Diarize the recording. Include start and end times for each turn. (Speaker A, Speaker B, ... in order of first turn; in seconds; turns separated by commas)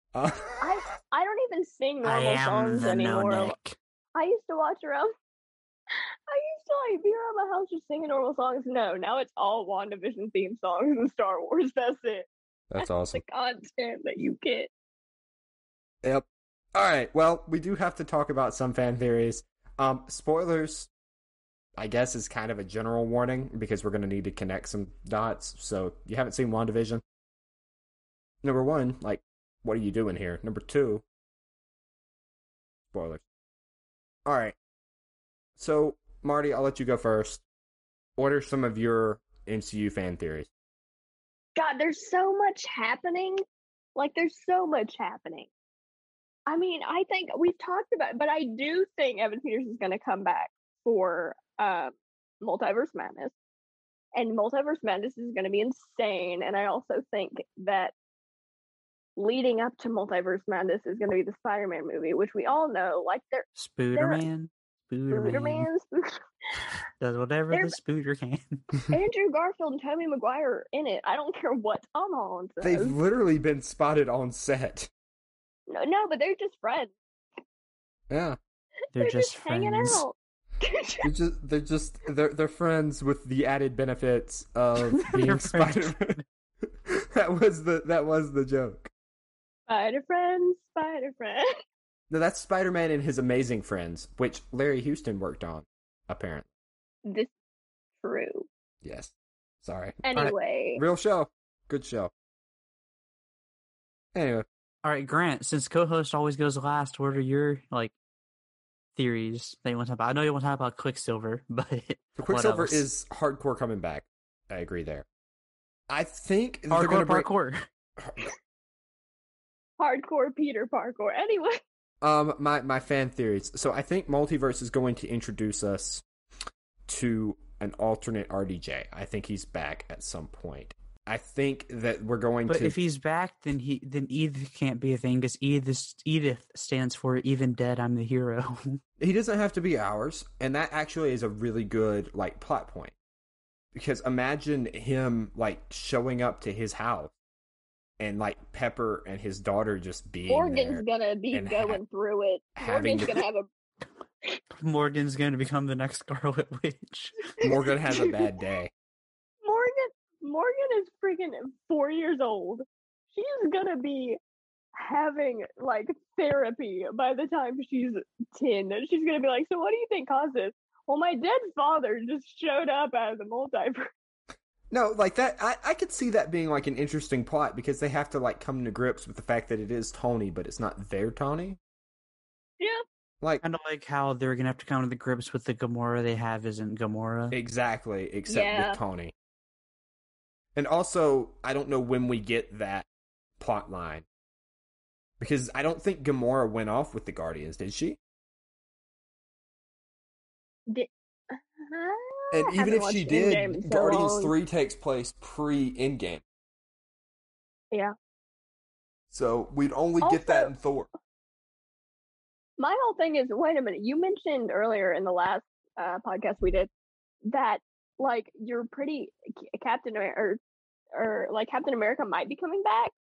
Speaker A: 0.1-0.8, Speaker B: 0.6-3.5, Speaker C: 2.0-3.8, Speaker B: 4.1-5.1, Speaker B: 6.3-12.3, Speaker A: 12.7-13.2, Speaker B: 12.8-14.7, Speaker A: 16.0-20.9, Speaker A: 21.8-27.0, Speaker A: 28.4-31.0, Speaker A: 32.9-33.2, Speaker A: 34.2-34.5, Speaker A: 35.6-37.4, Speaker A: 38.2-40.5, Speaker B: 41.5-43.4, Speaker B: 44.0-45.5, Speaker B: 46.5-53.3, Speaker B: 54.1-57.9, Speaker B: 59.1-64.2, Speaker C: 63.5-65.7, Speaker B: 65.1-66.0, Speaker C: 67.0-68.7, Speaker B: 67.5-67.8, Speaker B: 68.9-73.0, Speaker A: 72.6-74.9, Speaker B: 75.7-76.9, Speaker A: 78.1-78.4, Speaker C: 78.9-80.0, Speaker B: 79.0-81.1, Speaker A: 81.0-86.1, Speaker C: 85.2-86.2, Speaker A: 86.9-88.9, Speaker B: 89.7-91.5, Speaker A: 92.1-96.5, Speaker B: 97.0-97.3, Speaker B: 98.0-98.5, Speaker A: 98.8-102.1, Speaker B: 100.0-100.8, Speaker A: 104.1-104.5, Speaker C: 104.8-107.9, Speaker C: 109.0-112.8, Speaker A: 112.2-115.0, Speaker A: 115.9-117.3, Speaker C: 116.7-117.6, Speaker A: 118.0-118.3, Speaker B: 119.8-121.6, Speaker A: 122.0-126.0, Speaker A: 126.9-132.8, Speaker C: 132.5-138.8, Speaker A: 139.0-142.9, Speaker A: 143.7-147.1, Speaker A: 148.0-151.8, Speaker B: 150.3-153.5, Speaker A: 152.6-153.2, Speaker C: 154.6-157.2, Speaker A: 157.4-158.7, Speaker B: 159.4-164.2, Speaker B: 164.8-173.8, Speaker A: 174.7-181.6, Speaker C: 183.4-187.3, Speaker A: 187.3-189.1, Speaker B: 188.3-188.8, Speaker A: 190.6-192.9, Speaker A: 193.4-194.0, Speaker A: 195.2-198.0, Speaker B: 200.7-204.3, Speaker A: 202.3-206.2, Speaker A: 209.1-210.9, Speaker B: 210.0-210.5, Speaker B: 212.6-216.7, Speaker B: 217.3-220.4, Speaker B: 220.9-222.9